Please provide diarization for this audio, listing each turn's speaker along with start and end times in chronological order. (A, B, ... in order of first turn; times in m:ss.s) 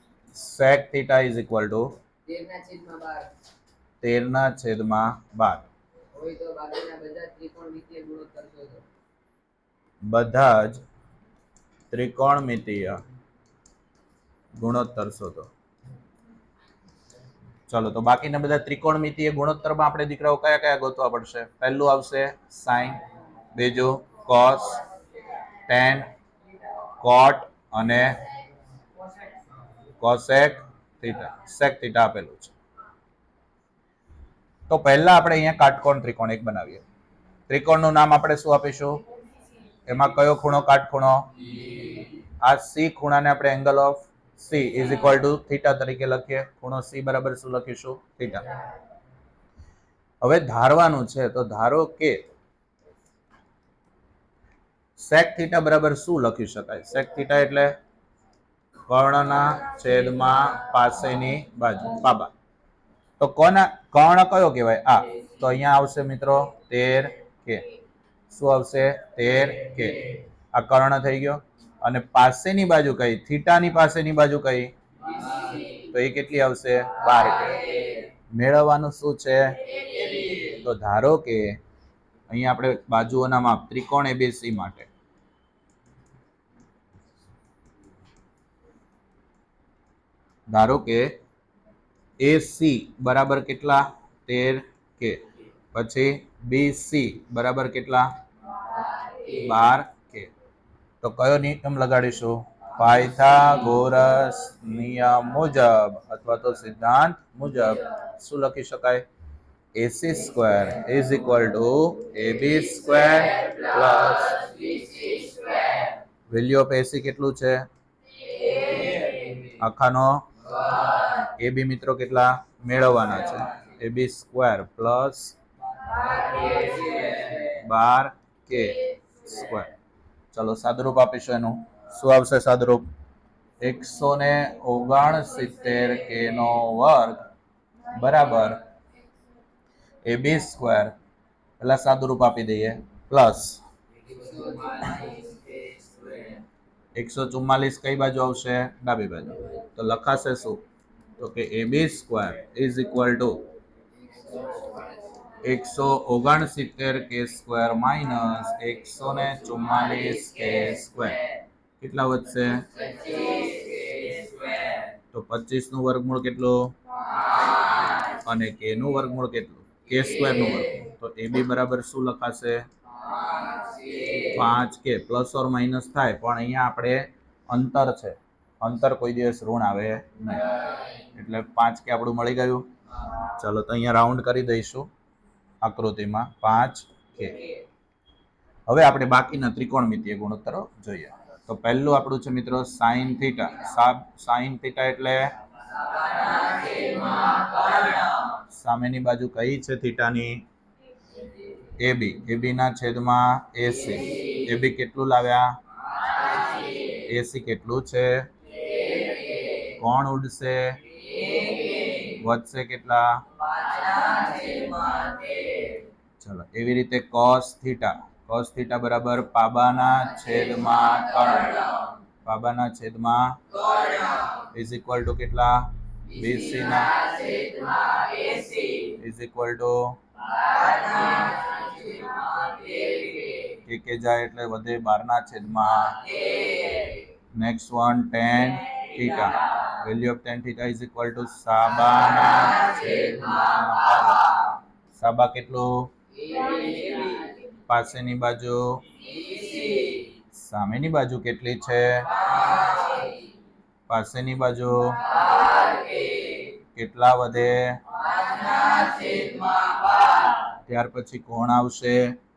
0:00.3-0:01.9 A
0:02.2-0:03.3 B
0:04.0-0:05.7 A
0:06.1-0:08.8 B
0:10.1-0:10.8 A
0:11.9-0:13.0 A
0:14.6-0:15.5 A
0:17.7-0:23.0 A
0:23.5-0:24.8 A
0:25.7-0:26.1 A
0:27.0-0:28.2 A
0:30.0-0:32.5 A
0:34.7-0:36.8 A
0:37.5-0:39.0 A
0:39.9-0:41.3 A
0:42.4-0:48.5 A
0:50.2-0:52.2 A
0:55.0-0:57.7 A
0:58.9-1:02.3 A
1:03.2-1:07.7 A
1:08.3-1:14.7 A
1:15.2-1:15.7 B
1:15.9-1:17.7 A
1:18.3-1:19.7 A
1:19.9-1:20.4 B
1:20.4-1:21.6 A
1:22.3-1:24.9 A
1:30.5-1:31.1 A
1:32.2-1:35.2 A
1:35.7-1:38.1 A
1:39.3-1:40.3 A
1:41.0-1:49.0 A
1:49.8-1:54.5 A
1:54.5-1:55.9 B
1:56.3-1:57.6 A
1:58.4-1:59.3 B
1:59.6-2:00.2 A
2:01.1-2:05.3 A
2:05.8-2:07.3 B
2:07.4-2:09.7 A
2:10.3-2:12.8 A
2:13.6-2:17.2 A
2:17.9-2:18.6 A
2:20.0-2:20.9 A
2:21.6-2:23.6 A
2:24.0-2:26.1 B
2:26.9-2:30.6 A
2:31.2-2:33.5 A
2:34.1-2:35.0 B
2:35.4-2:41.2 A
2:41.8-2:42.7 A
2:42.8-2:44.8 B
2:45.1-2:46.7 A
2:48.0-2:52.6 A
2:53.1-2:54.3 B
2:54.3-3:00.5 A
3:01.1-3:02.6 A
3:03.2-3:04.9 A
3:05.6-3:07.4 A
3:08.7-3:15.3 A
3:16.0-3:18.2 B
3:18.5-3:20.4 A
3:21.8-3:25.6 A
3:26.1-3:26.8 B
3:27.1-3:28.3 A
3:29.8-3:30.8 A
3:31.2-3:31.9 B
3:32.1-3:33.2 A
3:33.6-3:35.8 B
3:36.2-3:41.7 A
3:42.2-3:43.4 A
3:43.7-3:44.4 B
3:44.5-3:47.0 A
3:46.9-3:48.9 B
3:48.9-3:50.0 A
3:50.4-3:53.6 B
3:53.6-3:56.0 A
3:56.2-3:57.0 B
3:57.4-4:05.9 A
4:06.1-4:07.5 B
4:07.7-4:08.9 A
4:09.0-4:10.1 B
4:10.3-4:12.3 A
4:12.4-4:13.1 B
4:13.9-4:15.1 A
4:15.3-4:16.4 B
4:16.7-4:17.8 A
4:18.1-4:20.4 B
4:20.7-4:22.2 A